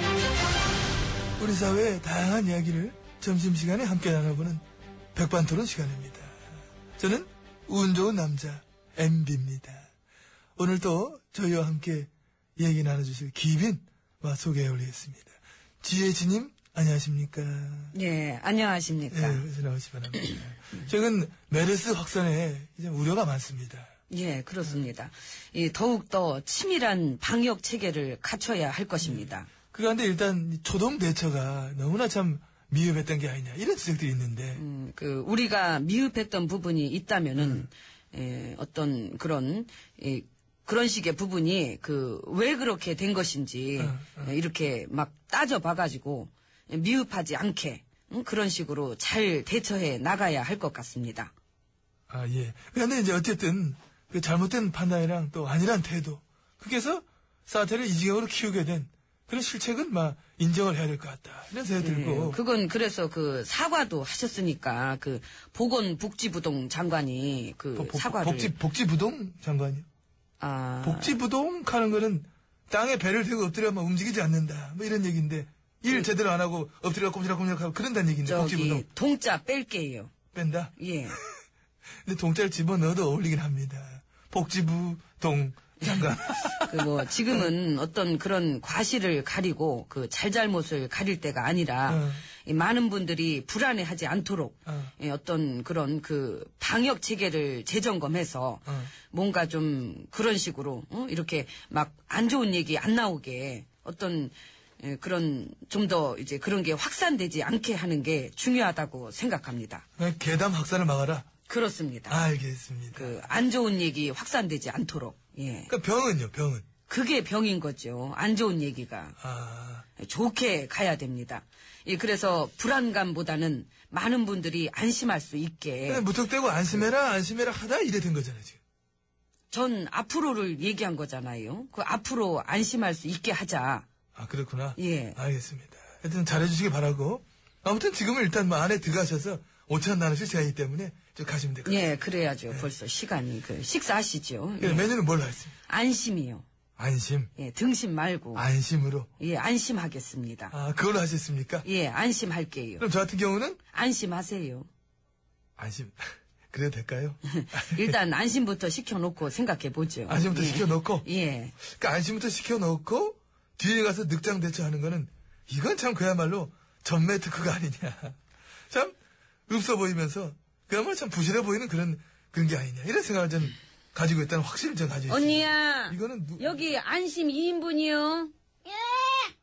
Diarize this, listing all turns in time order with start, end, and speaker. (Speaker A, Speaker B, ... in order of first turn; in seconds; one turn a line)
Speaker A: 1.4-4.6
Speaker A: 5.1-6.3
Speaker A: 7.0-9.9
Speaker A: 10.6-17.9
Speaker B: 17.9-19.4
Speaker A: 19.1-23.9
Speaker B: 24.1-29.5
Speaker A: 29.0-34.6
Speaker B: 34.5-51.3
Speaker A: 37.4-37.6
Speaker A: 43.8-44.3
Speaker A: 52.1-62.4
Speaker B: 61.8-68.5
Speaker A: 67.8-69.8
Speaker B: 70.4-71.2
Speaker A: 70.8-78.8
Speaker B: 78.2-80.1
Speaker A: 80.3-81.2
Speaker B: 80.8-81.2
Speaker A: 82.0-87.5
Speaker B: 86.7-109.8
Speaker A: 91.9-92.2
Speaker A: 94.7-94.9
Speaker A: 110.0-111.3
Speaker B: 111.5-112.2
Speaker A: 112.1-113.1
Speaker B: 112.9-115.7
Speaker A: 115.7-116.7
Speaker B: 116.9-119.1
Speaker A: 119.2-119.8
Speaker B: 120.0-126.0
Speaker A: 125.9-128.6
Speaker B: 129.5-133.9
Speaker A: 134.1-142.7
Speaker B: 134.8-135.2
Speaker B: 141.6-144.9
Speaker A: 144.6-145.5
Speaker B: 145.7-146.4
Speaker A: 146.8-147.3
Speaker B: 147.3-148.5
Speaker A: 148.3-149.1
Speaker B: 149.2-150.5
Speaker A: 150.5-151.7
Speaker B: 151.6-152.8
Speaker A: 152.8-153.6
Speaker B: 153.7-154.7
Speaker A: 155.6-157.9
Speaker B: 157.3-161.5
Speaker A: 160.1-161.1
Speaker A: 161.7-168.2
Speaker A: 168.7-168.9
Speaker A: 169.5-176.6
Speaker B: 175.1-179.3